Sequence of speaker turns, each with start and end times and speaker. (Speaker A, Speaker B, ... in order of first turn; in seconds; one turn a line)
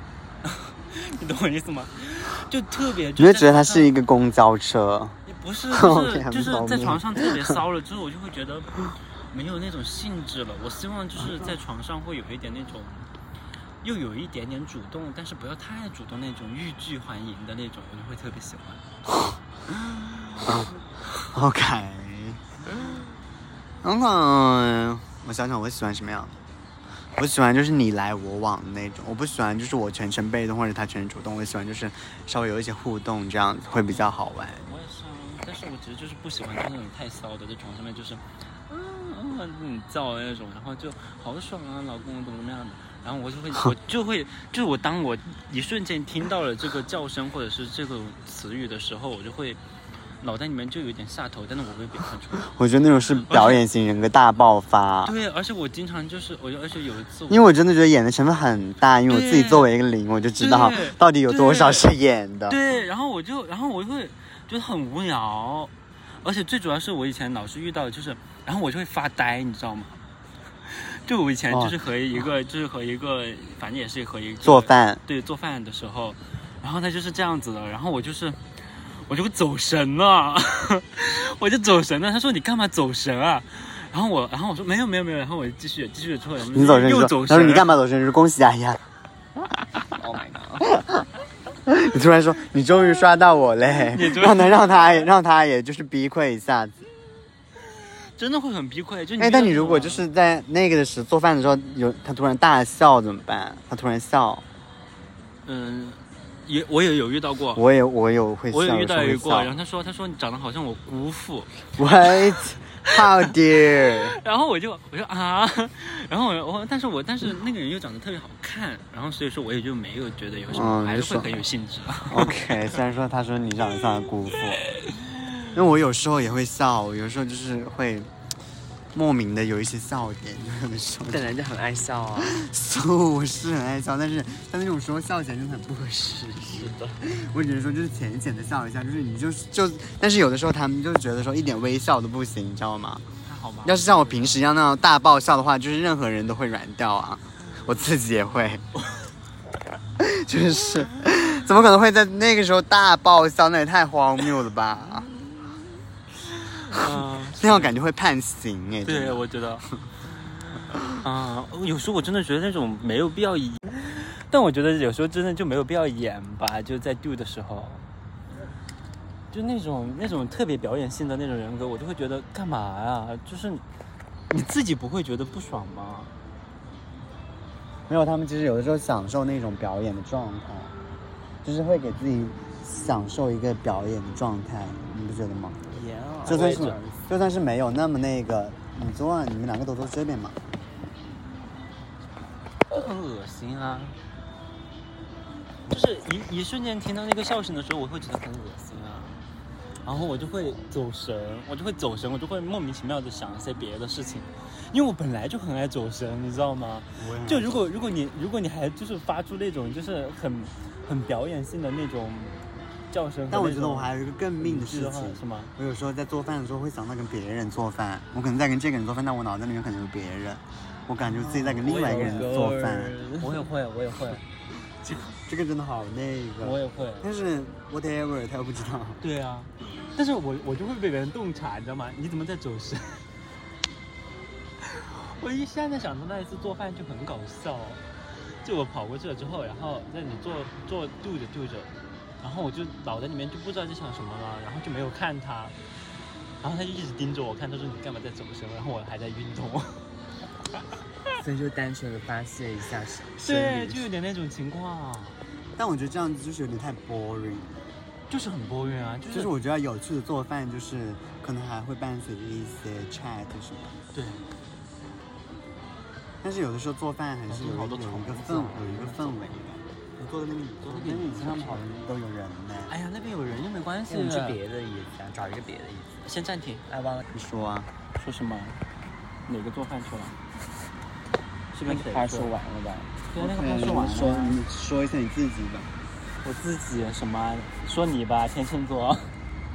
Speaker A: 0.4-3.9
Speaker B: 3.2-5.2
Speaker A: 5.2-13.1
Speaker B: 5.7-7.6
Speaker A: 13.8-18.8
Speaker A: 19.9-20.5
Speaker B: 20.4-20.7
Speaker B: 21.3-22.4
Speaker B: 23.8-26.4
Speaker B: 27.2-34.7
Speaker A: 33.9-49.6
Speaker A: 50.2-53.6
Speaker B: 52.4-55.1
Speaker A: 55.0-57.5
Speaker B: 57.3-62.6
Speaker A: 59.1-59.7
Speaker A: 60.4-61.9
Speaker A: 62.5-70.0
Speaker A: 70.7-87.8
Speaker B: 71.5-71.8
Speaker B: 74.4-75.0
Speaker B: 86.5-88.8
Speaker C: 90.0-90.7
Speaker B: 90.8-91.0
Speaker B: 91.7-96.8
Speaker A: 93.9-94.8
Speaker A: 97.6-100.0
Speaker B: 99.2-104.4
Speaker A: 105.4-107.6
Speaker B: 107.5-109.5
Speaker A: 108.5-122.7
Speaker B: 111.8-114.2
Speaker B: 120.5-121.4
Speaker B: 122.1-124.6
Speaker B: 125.5-128.1
Speaker B: 128.9-131.3
Speaker C: 131.1-132.4
Speaker B: 132.3-143.0
Speaker C: 136.4-137.0
Speaker A: 143.2-144.5
Speaker B: 143.6-148.7
Speaker B: 150.0-155.1
Speaker A: 156.4-157.7
Speaker B: 157.3-159.2
Speaker A: 158.8-159.7
Speaker A: 160.9-167.8
Speaker A: 169.3-173.6
Speaker A: 174.3-176.1
Speaker B: 177.9-180.7
Speaker B: 181.4-185.6
Speaker C: 185.7-187.1
Speaker B: 186.2-190.4
Speaker A: 186.3-186.8
Speaker A: 192.7-194.0
Speaker A: 195.7-199.2
Speaker A: 199.8-215.5
Speaker B: 207.0-207.6
Speaker B: 213.3-223.0
Speaker A: 221.0-224.2
Speaker B: 225.1-229.0
Speaker A: 226.4-227.1
Speaker A: 229.0-233.1
Speaker A: 234.6-245.6
Speaker A: 246.4-249.9
Speaker C: 251.2-253.2
Speaker A: 253.2-255.2
Speaker B: 253.2-253.8
Speaker B: 255.6-257.6
Speaker A: 258.1-259.3
Speaker B: 259.1-263.8
Speaker A: 263.9-264.3
Speaker B: 266.2-272.7
Speaker A: 267.3-269.3
Speaker A: 270.6-271.6
Speaker A: 272.7-274.4
Speaker C: 273.9-276.1
Speaker A: 276.0-276.6
Speaker C: 276.7-277.1
Speaker B: 277.1-277.7
Speaker A: 277.9-278.6
Speaker A: 279.2-280.1
Speaker A: 281.5-282.3
Speaker C: 281.6-283.0
Speaker A: 283.1-284.4
Speaker B: 283.1-285.7
Speaker A: 286.2-289.1